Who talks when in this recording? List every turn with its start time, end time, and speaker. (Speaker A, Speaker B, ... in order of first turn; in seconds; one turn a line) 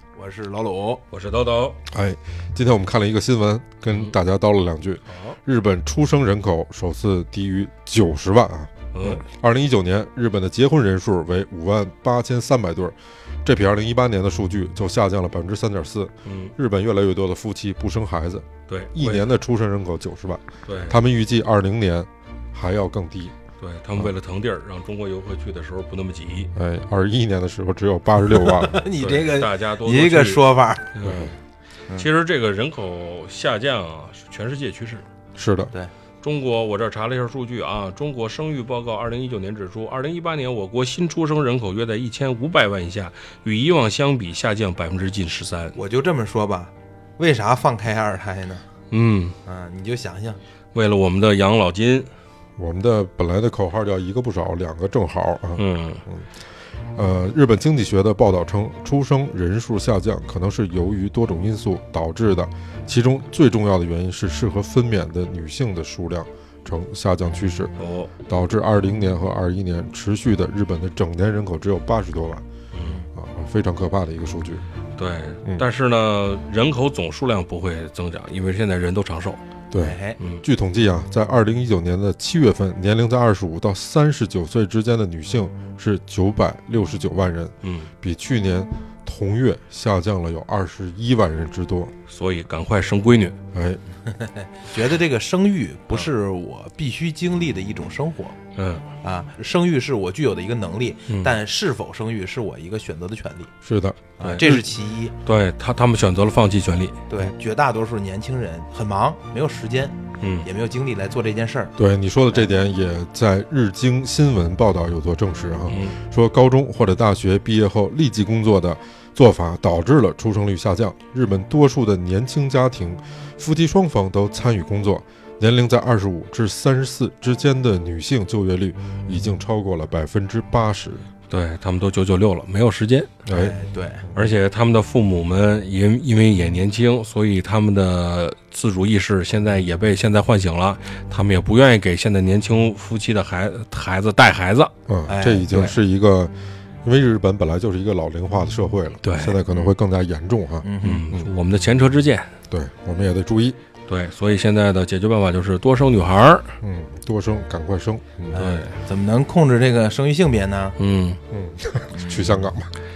Speaker A: 0.1-1.0
Speaker B: 1.1-1.8
Speaker C: 1.9-23.3
Speaker B: 8.9-9.2
Speaker B: 16.2-16.5
Speaker B: 18.7-19.3
Speaker B: 20.6-21.0
Speaker B: 23.6-26.5
Speaker C: 26.5-28.8
Speaker A: 28.2-31.0
Speaker B: 28.9-31.4
Speaker C: 31.0-31.4
Speaker B: 31.9-35.1
Speaker C: 35.4-35.7
Speaker B: 36.2-45.8
Speaker A: 45.8-48.7
Speaker B: 48.9-49.4
Speaker A: 49.5-50.4
Speaker B: 50.8-52.1
Speaker C: 52.6-56.3
Speaker B: 55.6-56.0
Speaker C: 56.9-72.4
Speaker B: 67.8-68.1
Speaker B: 72.7-73.0
Speaker C: 73.1-74.6
Speaker B: 75.0-79.4
Speaker C: 79.7-91.9
Speaker A: 79.8-80.2
Speaker B: 87.6-87.9
Speaker B: 92.1-93.4
Speaker C: 93.5-93.8
Speaker A: 94.1-98.4
Speaker B: 98.5-98.9
Speaker A: 99.0-103.5
Speaker C: 103.6-104.6
Speaker A: 104.2-105.2
Speaker B: 104.2-104.5
Speaker B: 105.2-107.0
Speaker A: 107.1-111.8
Speaker C: 111.8-131.1
Speaker B: 115.7-116.0
Speaker B: 131.3-133.2
Speaker C: 133.3-133.6
Speaker A: 133.3-134.1
Speaker B: 134.2-144.7
Speaker C: 144.9-151.3
Speaker A: 145.1-145.8
Speaker B: 149.0-149.4
Speaker A: 150.6-151.1
Speaker B: 150.8-152.3
Speaker C: 152.5-153.6
Speaker B: 153.9-156.6
Speaker C: 156.6-158.4
Speaker A: 158.3-160.8
Speaker B: 158.4-158.8
Speaker B: 160.8-161.2
Speaker C: 161.3-162.7
Speaker A: 161.9-162.5